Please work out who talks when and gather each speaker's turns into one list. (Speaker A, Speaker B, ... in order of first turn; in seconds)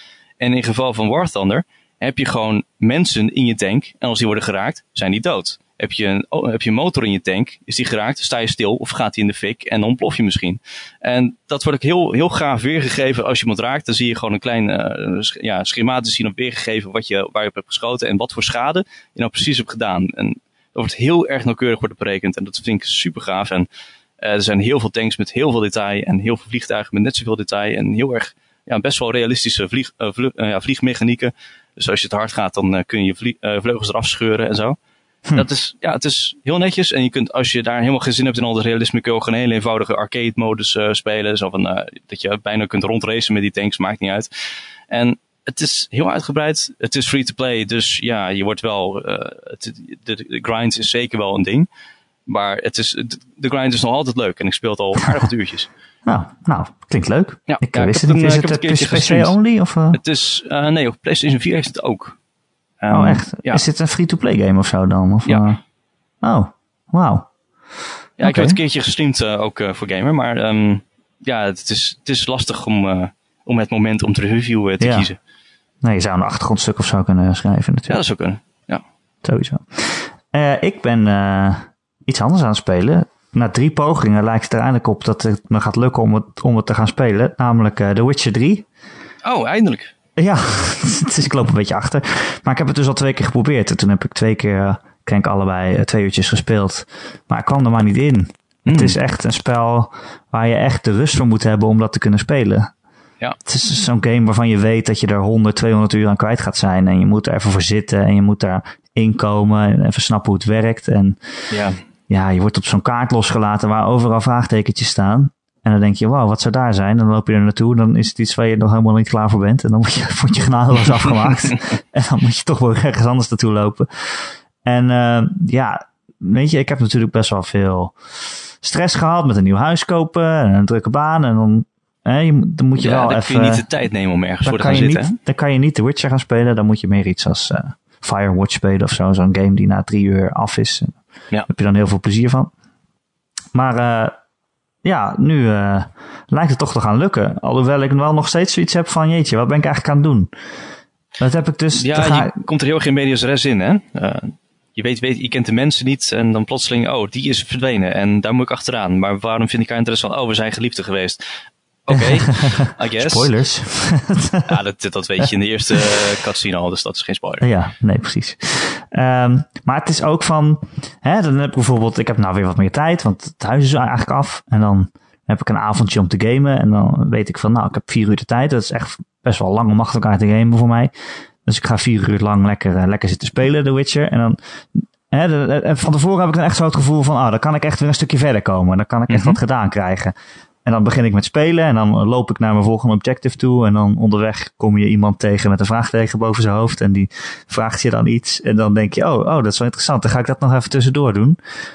Speaker A: 0.4-23.7, 24.2-34.8, 35.3-44.3, 44.9-51.7, 52.3-55.7, 57.5-59.4, 59.9-62.2, 62.8-63.7, 68.2-75.2, 77.9-78.8, 89.2-89.9, 98.7-99.0, 111.5-111.8, 132.8-135.2, 151.7-161.2, 161.9-163.3, 164.5-167.5, 189.1-189.4
Speaker B: 56.1-60.0, 62.9-65.6, 66.2-67.3, 68.2-68.6, 74.8-75.1, 75.8-78.0, 79.2-88.7, 90.2-102.7, 103.5-111.2, 112.1-128.0, 128.6-133.7, 134.4-142.5, 143.5-144.2, 144.8-150.3, 151.2-152.4, 161.9-164.5, 167.4-180.9, 181.4-201.4